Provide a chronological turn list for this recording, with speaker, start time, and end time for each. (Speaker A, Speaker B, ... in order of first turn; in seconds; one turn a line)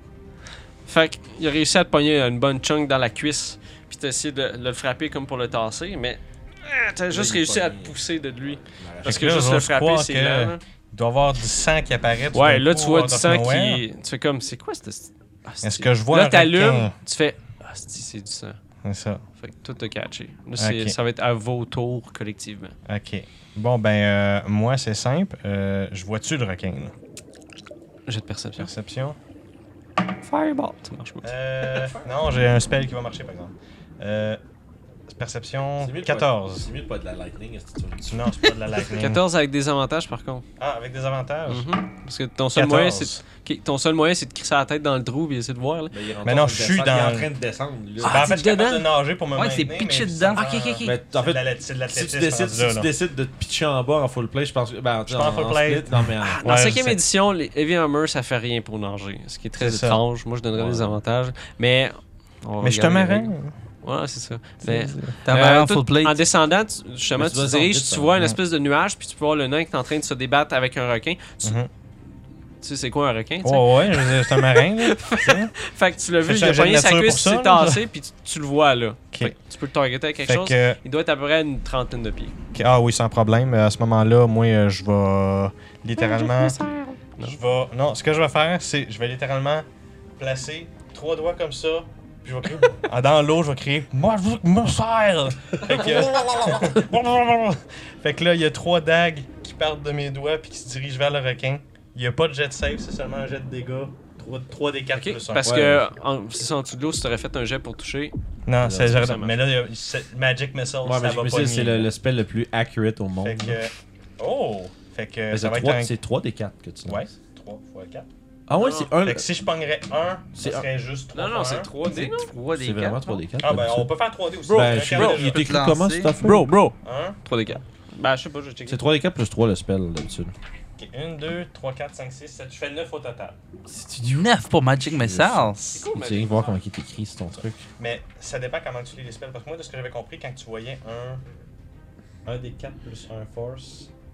Speaker A: 0.8-10.6
Speaker B: 7.1-8.0
Speaker B: 8.6-9.4
Speaker C: 9.0-13.8
Speaker A: 12.3-18.6
Speaker C: 15.6-16.9
Speaker C: 18.8-19.2
Speaker A: 19.4-22.8
Speaker C: 20.6-20.9
Speaker C: 22.9-26.9
Speaker A: 28.1-28.7
Speaker C: 28.6-29.2
Speaker A: 30.2-31.3
Speaker C: 31.2-34.4
Speaker B: 31.7-32.2
Speaker C: 35.1-36.6
Speaker B: 35.8-38.7
Speaker C: 38.1-39.2
Speaker A: 39.0-40.4
Speaker C: 40.6-41.7
Speaker A: 41.5-45.9
Speaker C: 42.5-43.2
Speaker B: 45.9-48.3
Speaker C: 46.2-47.3
Speaker C: 48.0-52.9
Speaker D: 48.0-48.3
Speaker A: 48.1-48.9
Speaker D: 49.3-50.9
Speaker A: 50.4-50.6
Speaker B: 50.8-56.4
Speaker C: 55.1-57.0
Speaker A: 56.2-71.6
Speaker C: 59.6-60.0
Speaker B: 60.5-61.0
Speaker C: 62.6-63.5
Speaker C: 64.6-65.1
Speaker D: 65.2-66.2
Speaker B: 67.2-68.2
Speaker C: 71.4-71.7
Speaker A: 72.6-82.3
Speaker C: 73.4-75.5
Speaker C: 76.2-77.8
Speaker C: 80.2-80.8
Speaker C: 82.5-86.6
Speaker A: 86.0-87.4
Speaker C: 87.2-89.7
Speaker C: 90.2-105.6
Speaker A: 104.9-108.1
Speaker B: 105.4-105.8
Speaker C: 108.5-111.9
Speaker B: 108.6-109.0
Speaker A: 108.7-109.4
Speaker B: 110.8-113.6
Speaker C: 113.2-115.9
Speaker B: 115.3-117.0
Speaker C: 116.8-118.1
Speaker B: 118.5-119.2
Speaker A: 118.5-118.9
Speaker C: 119.0-121.7
Speaker B: 120.3-120.7
Speaker A: 121.1-122.3
Speaker D: 121.9-123.2
Speaker B: 122.5-123.9
Speaker C: 123.4-125.6
Speaker A: 124.5-125.3
Speaker B: 124.5-126.5
Speaker D: 125.3-126.1
Speaker A: 126.2-128.8
Speaker C: 126.8-127.2
Speaker B: 128.7-130.3
Speaker C: 130.8-133.4
Speaker D: 133.8-135.8
Speaker B: 134.9-137.6
Speaker A: 135.7-136.6
Speaker C: 137.8-141.2
Speaker C: 142.2-143.9